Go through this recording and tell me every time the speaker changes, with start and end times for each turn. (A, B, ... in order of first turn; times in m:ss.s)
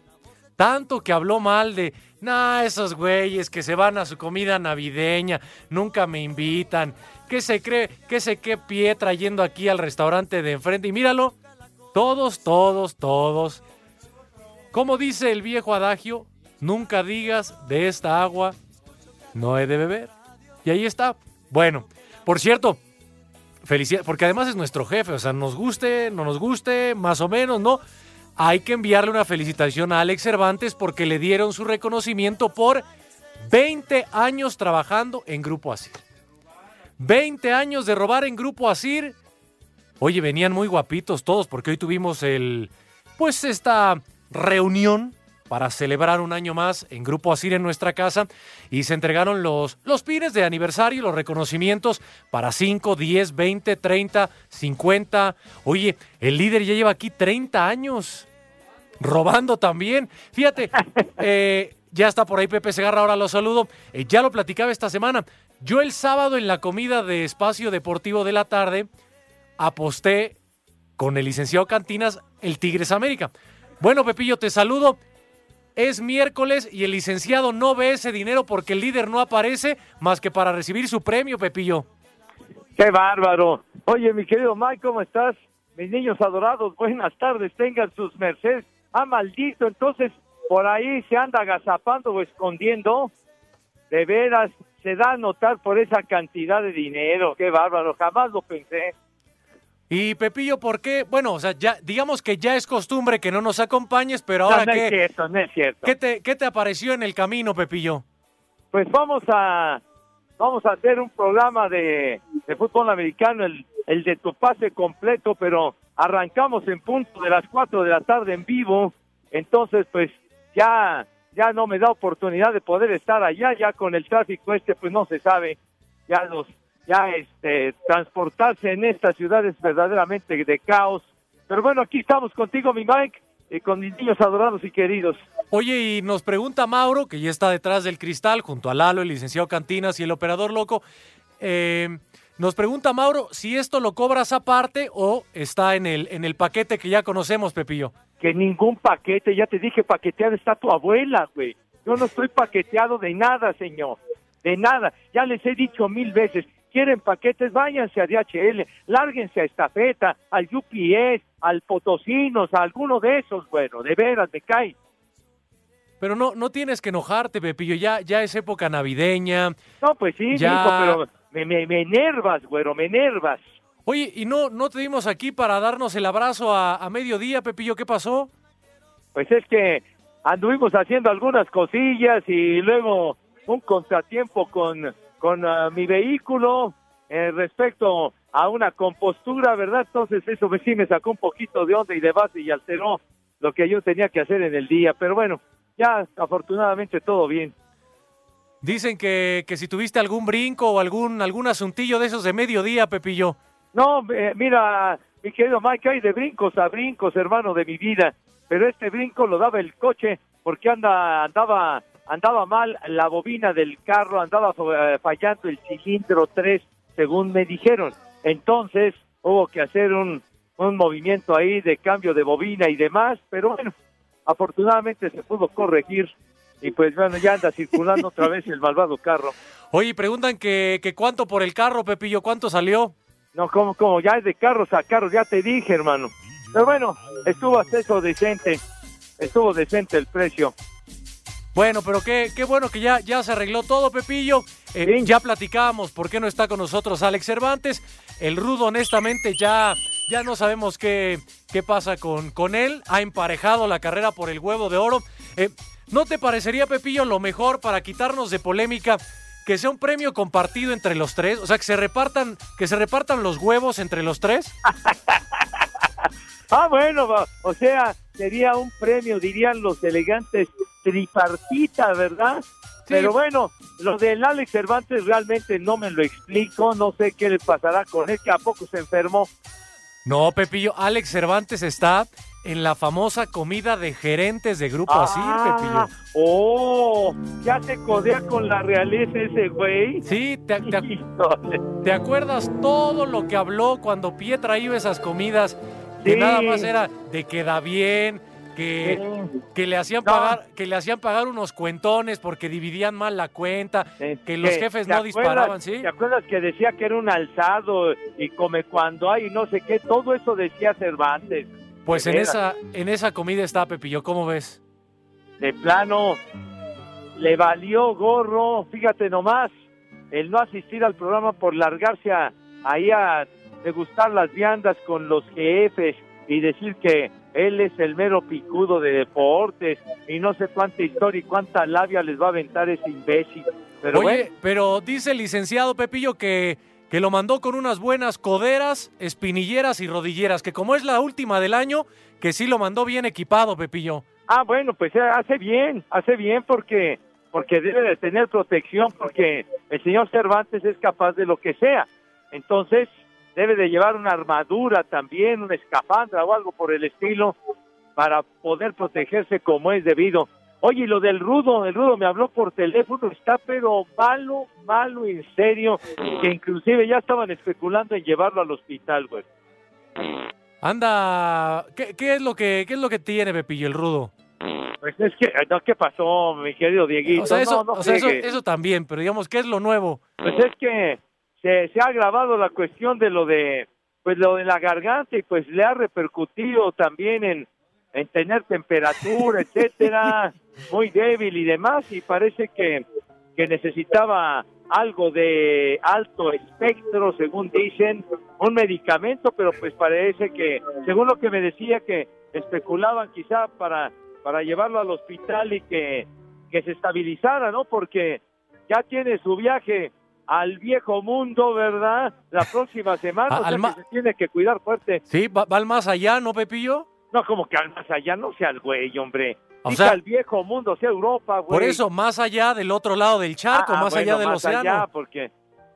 0:00.6-0:11.4 A
0:11.9-0:13.6 A
0:14.7-0:18.6 A
0:19.4-0:20.1 A
0:20.6-0:22.8 A
0:23.6-0:27.8 A
0:28.4-0:32.8 A
0:33.5-0:36.0 A
0:37.0-0:39.2 A
0:40.0-0:58.3 A
0:59.0-1:08.9 A
1:09.6-1:10.4 A
1:11.0-1:15.0 A
1:15.8-1:21.9 A
1:22.8-1:33.1 B
1:33.9-1:38.9 B
1:39.9-1:44.9 A
1:44.5-1:45.9 B
1:45.8-1:48.0 A
1:48.7-1:49.8 B
1:50.4-2:05.6 B
2:06.1-2:15.2 B
2:15.5-2:20.8 A
2:21.4-2:27.9 A
2:28.2-2:44.7 B
2:46.0-2:49.6 A
2:49.8-2:53.4 B
2:50.3-2:51.0 A
2:53.9-2:58.3 A
2:59.2-3:17.5 B
3:18.6-3:23.4 A
3:23.7-3:43.7 B
3:44.3-3:49.3 B
3:49.7-3:52.9 A
3:53.4-3:58.6 B
3:59.2-4:00.5 B
4:01.6-4:24.5 A
4:04.8-4:05.1 B
4:24.7-4:25.2 B
4:26.5-4:39.3 B
4:32.9-4:33.2 A
4:40.1-4:45.9 A
4:44.9-4:50.0 B
4:50.0-4:50.9 A
4:50.7-4:51.6 B
4:51.8-4:59.0 A
4:56.0-4:56.7 B
4:58.8-4:59.3 B
4:59.6-5:05.9 A
5:00.1-5:00.4 B
5:04.0-5:12.3 B
5:11.9-5:14.6 A
5:15.4-5:16.2 B
5:17.2-5:19.5 B
5:20.1-5:34.3 B
5:33.9-5:44.0 A
5:44.3-5:57.4 B
5:58.0-6:09.2 B
6:10.6-6:14.1 A
6:14.8-6:18.2 B
6:17.1-6:20.0 A
6:20.2-6:32.8 B
6:33.4-6:55.0 B
6:53.3-6:53.8 A
6:55.1-6:56.9 A
6:57.1-7:01.8 B
6:59.6-7:00.0 A
7:01.5-7:04.9 A
7:03.5-7:05.3 B